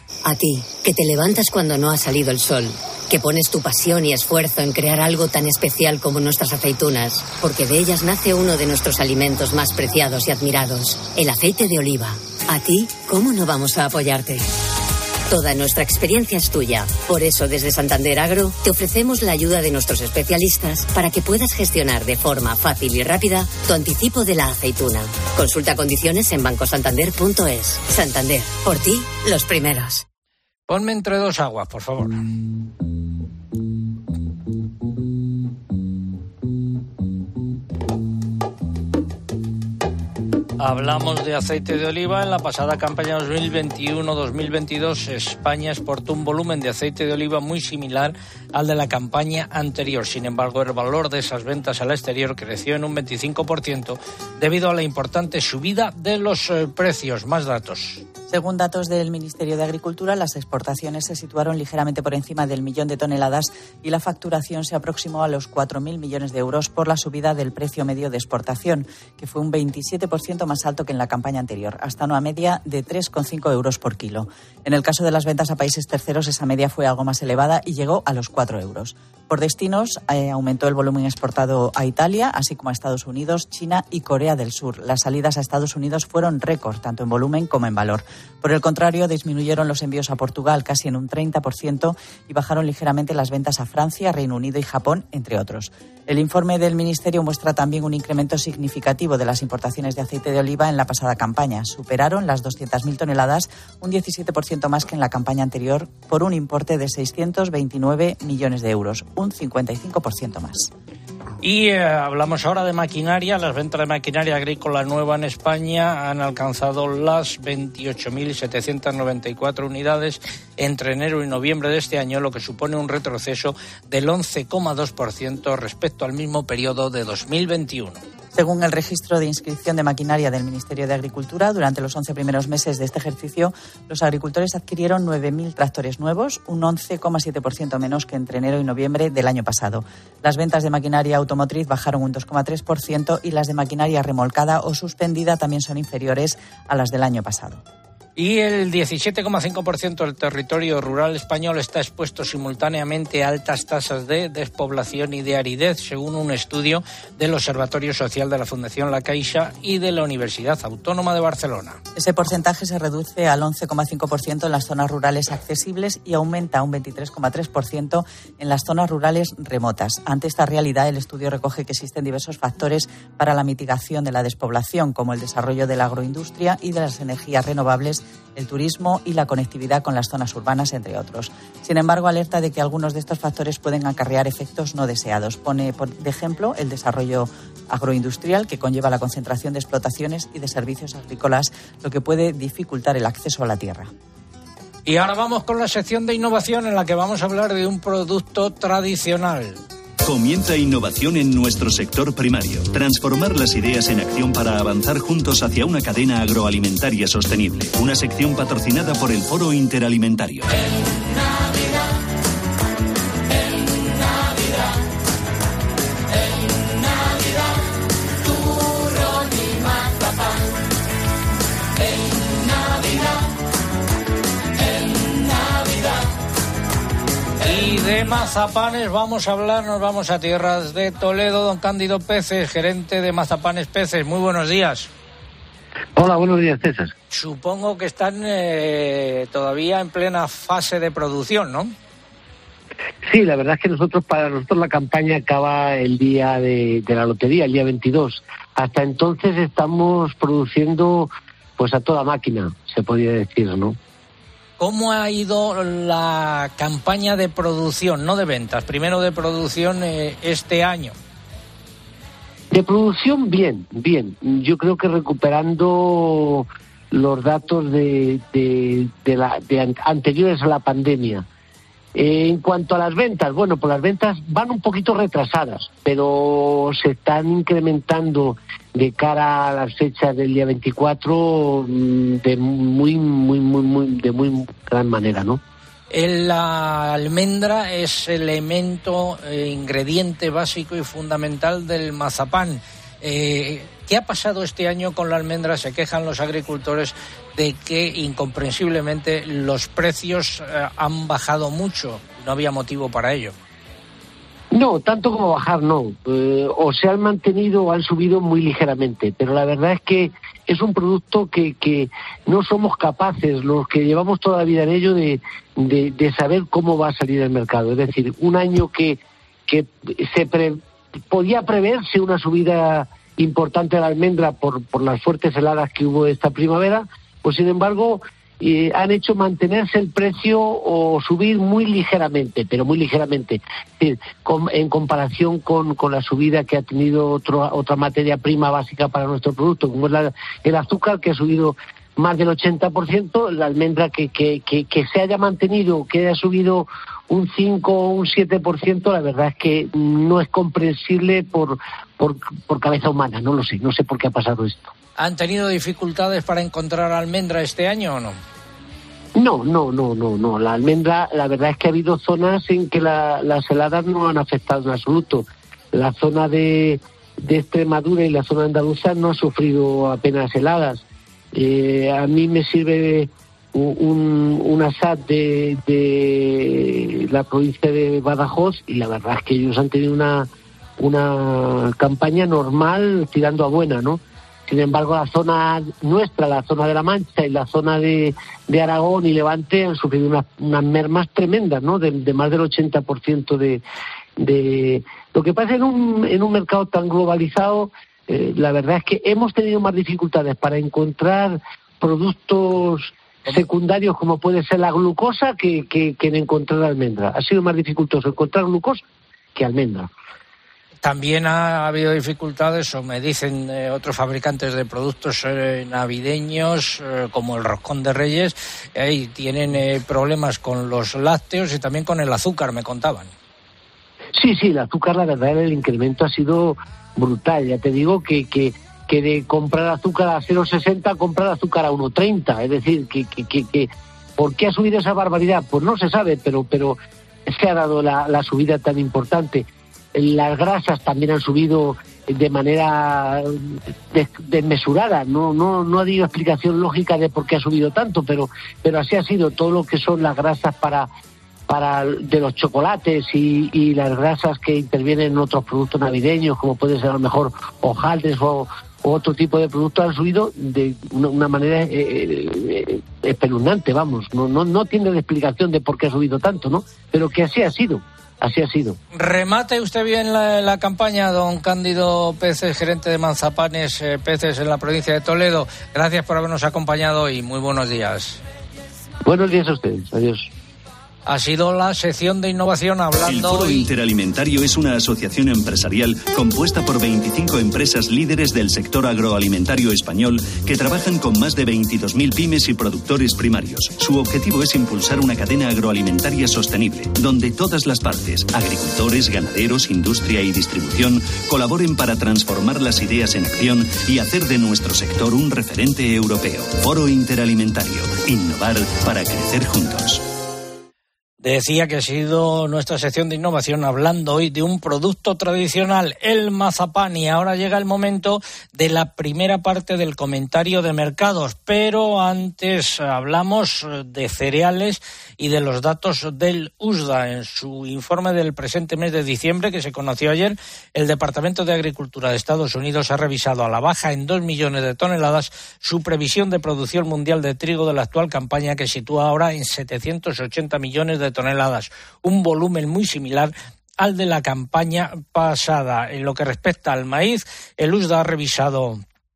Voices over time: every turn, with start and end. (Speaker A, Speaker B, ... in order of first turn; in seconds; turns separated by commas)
Speaker A: 0.2-14.5, Speaker A: 15.3-30.0, Speaker B: 30.7-32.2, Speaker B: 40.6-58.0, Speaker C: 58.3-110.7, Speaker B: 111.4-128.0, Speaker C: 128.3-147.6, Speaker B: 148.2-161.8, Speaker C: 161.9-193.9, Speaker B: 194.9-199.6, Speaker D: 200.0-210.6, Speaker B: 227.4-234.9, Speaker E: 235.9-236.9, Speaker B: 237.1-241.7, Speaker E: 243.1-253.8, Speaker B: 254.6-261.0, Speaker E: 262.5-271.3, Speaker E: 271.9-285.4, Speaker B: 285.9-303.4, Speaker E: 304.5-354.7, Speaker B: 355.0-358.2, Speaker E: 359.1-370.8, Speaker E: 371.3-380.3, Speaker E: 380.8-393.6, Speaker E: 394.2-408.8, Speaker E: 409.4-409.9, Speaker B: 410.8-423.1, Speaker E: 424.1-436.8, Speaker E: 437.3-450.9, Speaker E: 451.5-468.8, Speaker B: 468.9-478.2, Speaker E: 479.1-480.3, Speaker B: 481.1-483.7, Speaker D: 483.1-510.0, Speaker B: 511.2-548.8